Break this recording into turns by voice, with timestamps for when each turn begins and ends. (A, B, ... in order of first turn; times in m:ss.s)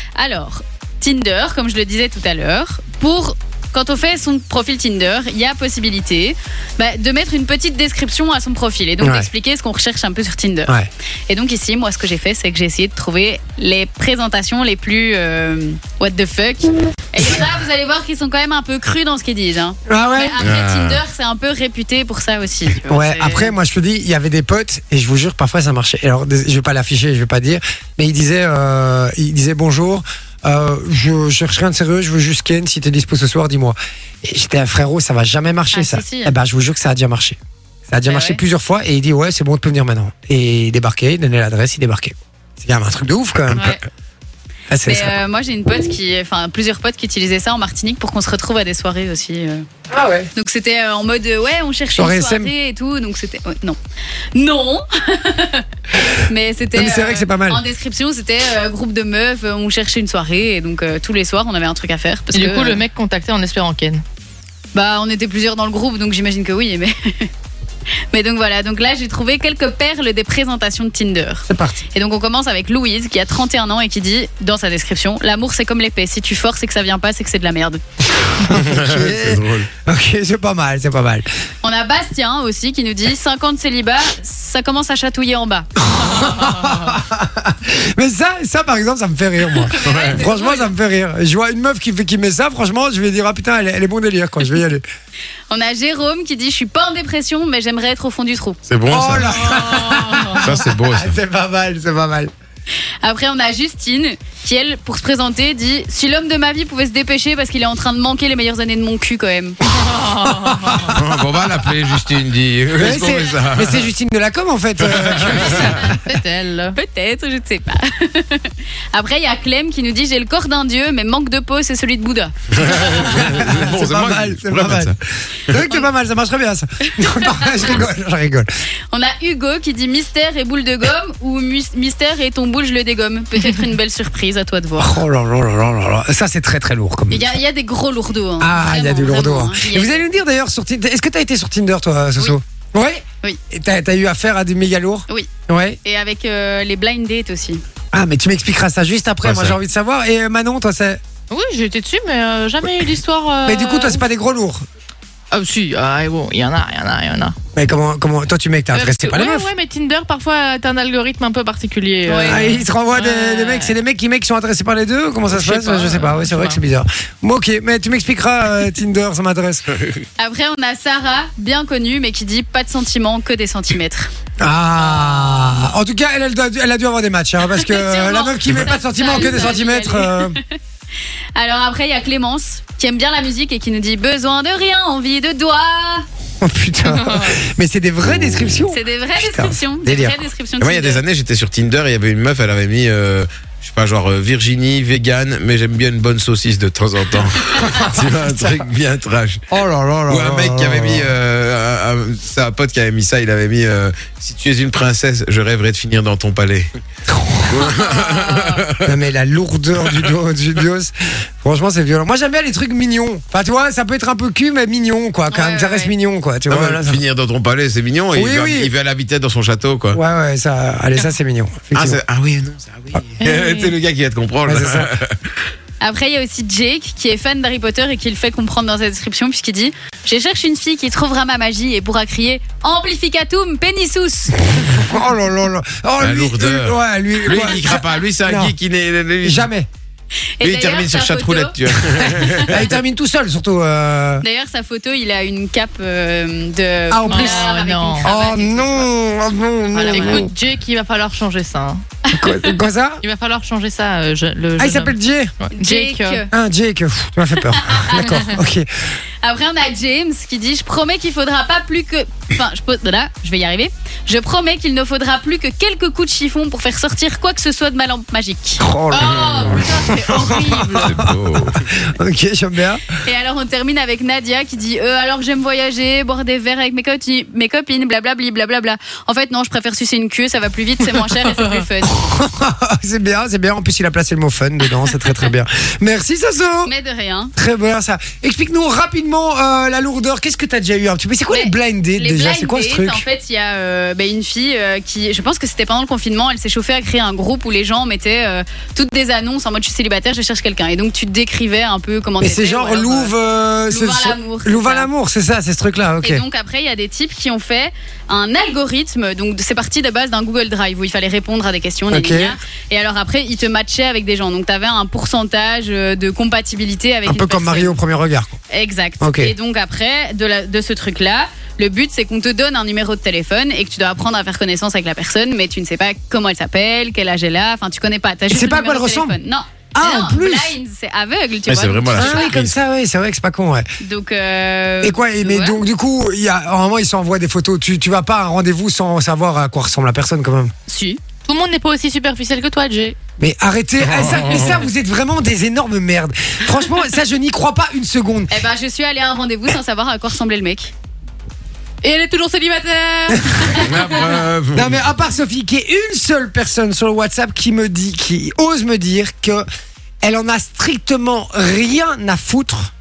0:00.2-0:10.7 A
0:09.0-0:09.3 B
0:11.3-0:23.5 A
0:19.9-0:20.4 B
0:20.4-0:21.0 C
0:22.9-0:37.4 B
0:35.7-0:36.4 A
0:37.9-0:43.7 B
0:38.0-0:38.4 A
0:43.5-0:43.8 A
0:44.7-0:45.2 B
0:44.9-0:49.7 A
0:49.9-0:50.3 B
0:50.4-0:53.8 A
0:52.0-0:52.5 B
0:54.4-1:02.8 A
0:56.7-0:57.6 B
1:02.3-1:04.0 D
1:04.7-1:07.3 A
1:08.1-1:17.8 A
1:11.5-1:11.8 B
1:18.4-1:21.3 B
1:18.5-1:19.7 C
1:21.6-1:26.3 A
1:25.8-1:34.8 B
1:29.6-1:30.7 A
1:29.8-1:30.2 C
1:35.5-1:38.6 A
1:38.7-1:39.5 C
1:38.9-1:42.3 B
1:39.5-1:40.2 D
1:40.3-1:41.2 C
1:43.0-1:49.6 A
1:49.7-1:50.9 D
1:50.9-1:53.9 C
1:52.8-1:55.9 B
1:54.8-1:55.8 C
1:55.3-1:56.0 A
1:55.9-1:56.8 D
1:56.7-2:03.2 A
2:02.5-2:05.6 C
2:02.9-2:04.9 B
2:05.5-2:08.5 B
2:07.0-2:07.7 A
2:08.9-2:15.0 A
2:14.8-2:17.4 B
2:17.1-2:20.1 A
2:18.4-2:25.8 B
2:25.8-2:27.6 A
2:27.9-2:31.0 B
2:29.2-2:29.6 C
2:31.3-2:34.0 D
2:33.4-2:34.6 B
2:35.3-2:37.4 D
2:37.6-2:39.5 B
2:38.7-2:43.8 D
2:42.1-2:42.5 A
2:42.2-2:49.7 B
2:45.3-2:46.6 D
2:50.2-2:54.1 A
2:54.4-3:00.4 B
2:54.8-2:55.6 A
2:57.5-3:00.5 A
3:01.4-3:06.0 A
3:06.4-3:10.2 B
3:06.9-3:07.4 D
3:08.0-3:08.6 C
3:08.7-3:11.0 A
3:10.6-3:19.4 C
3:17.6-3:18.6 B
3:19.5-3:21.1 B
3:20.1-3:26.7 C
3:27.1-3:27.5 B
3:27.4-3:29.0 C
3:28.2-3:28.5 D
3:28.8-3:37.0 B
3:29.8-3:30.1 C
3:35.3-3:35.9 A
3:36.5-3:40.0 C
3:38.1-3:38.7 B
3:39.9-3:42.0 B
3:41.7-3:45.4 C
3:43.2-3:43.7 D
3:44.5-3:44.9 B
3:45.8-3:54.4 A
3:54.6-3:58.5 B
3:56.0-3:59.5 C
3:59.2-3:59.7 B
4:00.4-4:01.6 A
4:00.4-4:02.7 C
4:02.0-4:04.2 B
4:02.4-4:02.7 A
4:04.2-4:08.9 A
4:06.9-4:07.5 B
4:07.1-4:08.2 D
4:08.0-4:10.3 B
4:09.7-4:10.3 A
4:09.9-4:11.8 D
4:12.1-4:12.6 A
4:12.1-4:13.0 B
4:13.0-4:16.2 D
4:14.6-4:15.3 B
4:15.5-4:16.3 A
4:16.3-4:18.7 B
4:17.5-4:18.3 A
4:19.2-4:30.2 A
4:28.6-4:32.8 B
4:28.9-4:31.0 D
4:30.8-4:31.6 C
4:33.0-4:42.1 A
4:41.9-4:46.7 B
4:44.9-4:45.3 A
4:46.6-4:47.3 A
4:47.4-4:53.0 B
4:51.3-5:04.9 A
5:02.2-5:06.2 B
5:06.0-5:17.8 A
5:11.9-5:12.4 B
5:17.1-5:18.3 B
5:18.5-5:32.4 A
5:19.0-5:19.3 B
5:28.3-5:29.2 B
5:29.7-5:30.6 B
5:31.5-5:32.6 C
5:32.0-5:33.7 B
5:33.8-5:35.6 A
5:34.8-5:40.5 B
5:40.7-5:41.0 A
5:41.2-5:43.0 D
5:43.2-5:48.3 B
5:43.8-5:44.7 C
5:48.3-5:50.7 A
5:51.8-5:54.2 D
5:53.6-5:54.9 C
5:54.5-5:59.4 B
6:00.0-6:02.7 B